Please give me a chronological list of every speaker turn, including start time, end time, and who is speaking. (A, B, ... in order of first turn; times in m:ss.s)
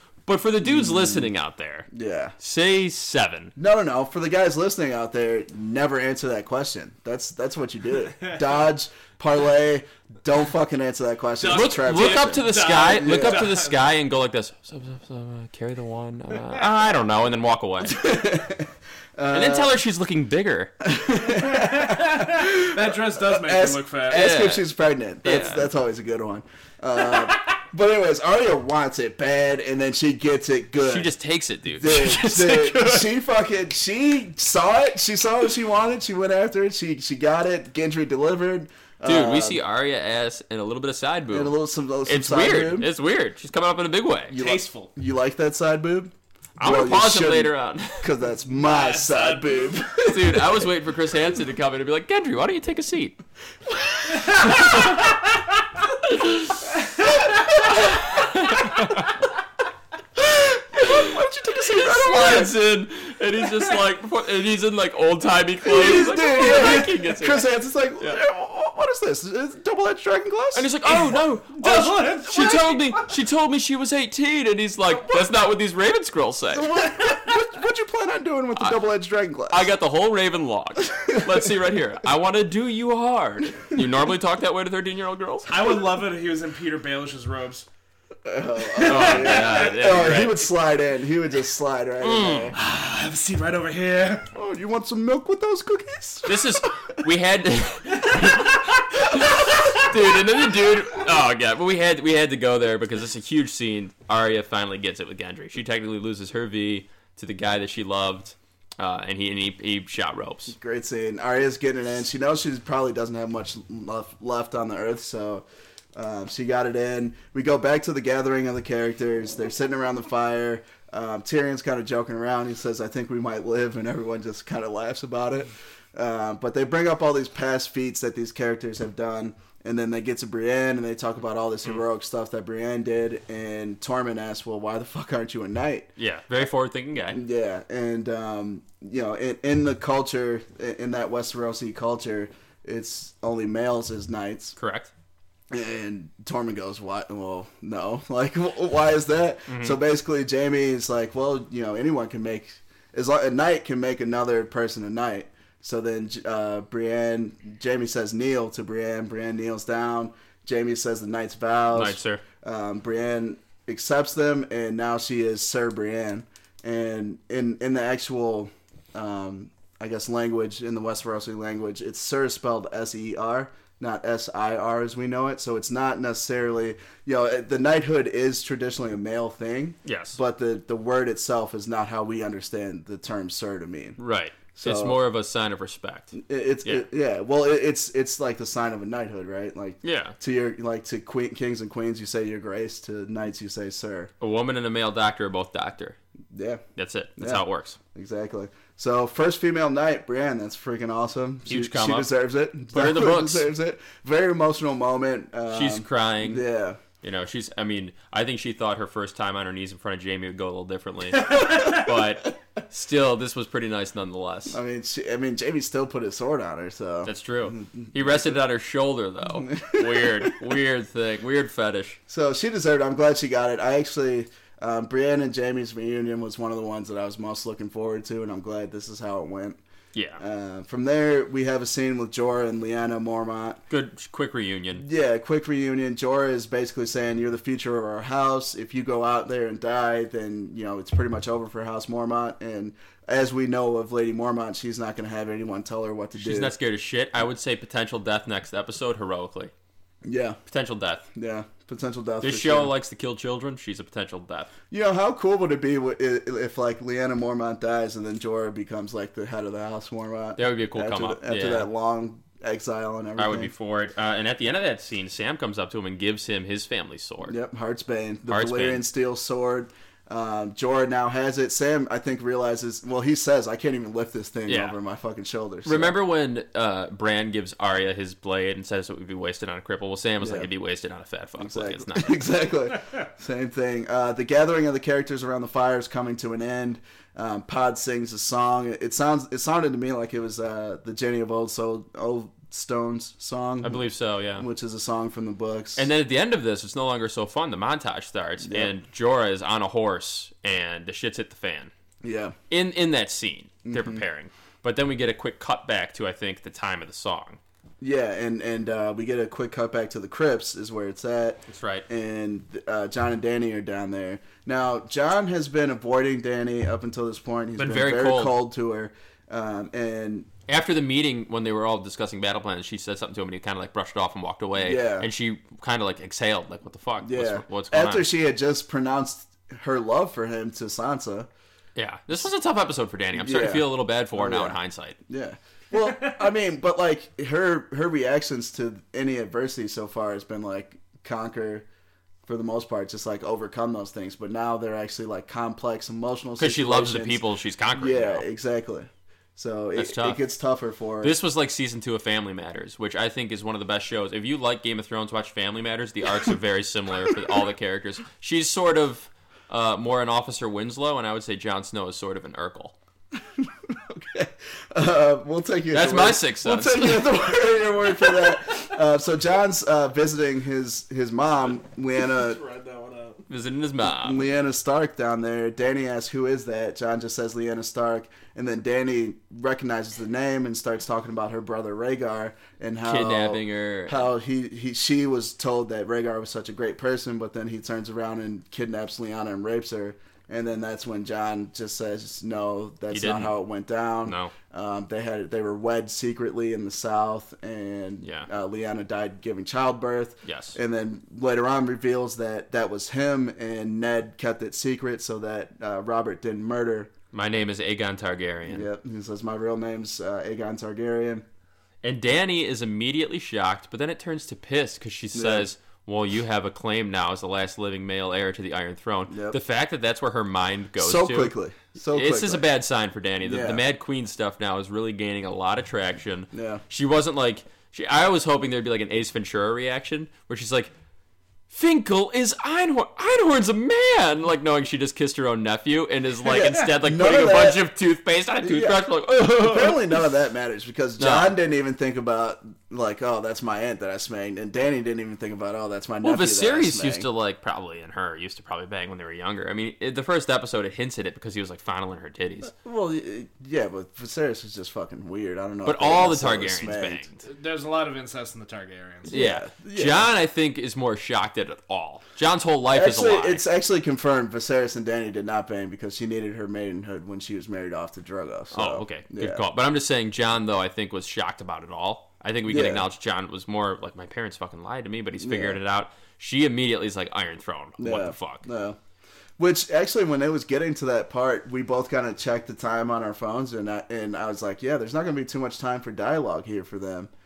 0:00.3-0:01.9 A
0:00.6-0:01.3 B
0:01.9-0:02.4 B
0:02.4-0:03.5 A
0:03.6-0:13.5 B
0:11.4-0:13.8 C
0:11.5-0:18.0 A
0:17.8-0:19.8 B
0:19.3-0:20.7 A
0:20.8-0:31.1 B
0:21.3-0:24.4 C
0:24.1-0:24.6 A
0:25.2-0:25.7 A
0:30.8-0:33.1 A
0:31.8-0:39.6 B
0:39.0-0:44.4 A
0:41.3-0:42.9 B
0:44.3-0:50.7 B
0:44.3-0:44.9 C
0:46.6-0:48.1 A
0:48.6-0:49.8 C
0:50.0-0:53.2 A
0:53.7-0:54.9 B
0:54.3-0:54.8 C
0:54.4-0:55.1 A
0:56.0-0:56.6 A
0:57.2-0:58.1 B
0:57.7-0:59.1 A
1:00.2-1:02.6 B
1:00.8-1:07.5 A
1:05.6-1:12.6 B
1:10.5-1:17.2 A
1:10.9-1:13.0 C
1:16.5-1:19.7 B
1:19.5-1:25.5 A
1:20.8-1:21.5 B
1:25.5-1:27.7 C
1:28.2-1:32.6 B
1:28.8-1:29.8 C
1:28.8-1:30.4 A
1:32.0-1:32.5 A
1:32.6-1:34.3 C
1:34.3-1:36.8 B
1:36.3-1:50.6 A
1:39.1-1:39.7 B
1:50.5-2:15.9 B
2:16.0-2:17.2 A
2:17.1-2:24.6 B
2:24.6-2:24.9 A
2:25.5-3:04.0 B
2:29.5-2:29.8 A
2:41.7-2:42.2 A
2:59.8-3:00.2 A
3:04.0-3:06.8 A
3:04.6-3:05.0 B
3:06.1-3:14.1 B
3:09.8-3:10.2 A
3:14.2-3:16.0 A
3:16.3-3:16.6 B
3:16.8-3:17.8 A
3:17.2-3:17.4 B
3:17.9-3:26.8 B
3:21.5-3:22.1 A
3:22.7-3:23.5 A
3:25.5-3:26.4 A
3:27.0-3:34.6 A
3:34.5-3:38.3 B
3:37.0-3:42.0 A
3:39.4-3:40.5 B
3:42.1-3:49.6 B
3:49.9-3:50.2 A
3:50.2-3:53.6 B
3:53.7-3:54.8 A
3:54.8-4:06.5 B
4:06.2-4:09.5 A
4:10.0-4:10.4 B
4:10.5-4:11.1 A
4:11.1-4:12.7 B
4:12.2-4:14.5 A
4:14.7-4:23.5 B
4:20.4-4:21.7 A
4:23.2-4:27.4 A
4:27.3-4:35.9 B
4:28.3-4:28.8 A
4:34.5-4:34.8 A
4:35.6-4:42.2 A
4:40.2-4:40.5 B
4:41.4-4:53.8 B
4:53.6-4:54.5 A
4:54.4-4:55.9 B
4:55.8-5:01.7 A
4:58.4-4:58.7 B
5:02.0-5:02.4 B
5:02.5-5:07.4 A
5:03.7-5:04.0 B
5:07.8-5:20.3 B
5:11.5-5:11.9 A
5:17.6-5:18.4 A
5:20.5-5:28.1 A
5:24.6-5:25.1 B
5:27.0-5:31.3 B
5:31.8-5:35.0 A
5:33.2-5:41.7 B
5:42.3-5:47.2 B
5:46.4-5:48.2 A
5:47.7-5:51.2 B
5:49.8-5:50.2 A
5:51.0-6:02.8 A
6:03.4-6:12.4 B
6:05.7-6:07.2 A
6:12.1-6:13.2 C
6:13.3-6:14.2 A
6:13.9-6:46.9 B
6:22.8-6:24.1 A
6:32.9-6:33.4 A
6:34.0-6:34.3 A
6:38.0-6:38.3 A
6:40.2-6:40.6 A
6:47.1-6:48.7 A
6:48.5-6:51.2 B
6:51.8-7:01.3 A
6:55.1-6:55.5 B
6:59.1-6:59.4 B
7:00.8-7:02.5 B
7:01.9-7:10.7 A
7:03.2-7:03.6 B
7:06.3-7:06.6 B
7:11.5-7:20.0 A
7:16.4-7:17.6 B
7:18.4-7:27.1 B
7:21.0-7:21.3 A
7:26.0-7:32.5 A
7:32.5-7:37.1 B
7:35.7-7:37.2 A
7:37.2-7:39.2 C
7:39.1-7:40.1 B
7:39.1-7:43.4 A
7:42.7-7:49.4 B
7:48.5-7:58.5 A
7:52.5-7:52.8 B
7:55.2-7:55.6 B
7:57.8-7:58.8 B
7:59.4-8:07.1 B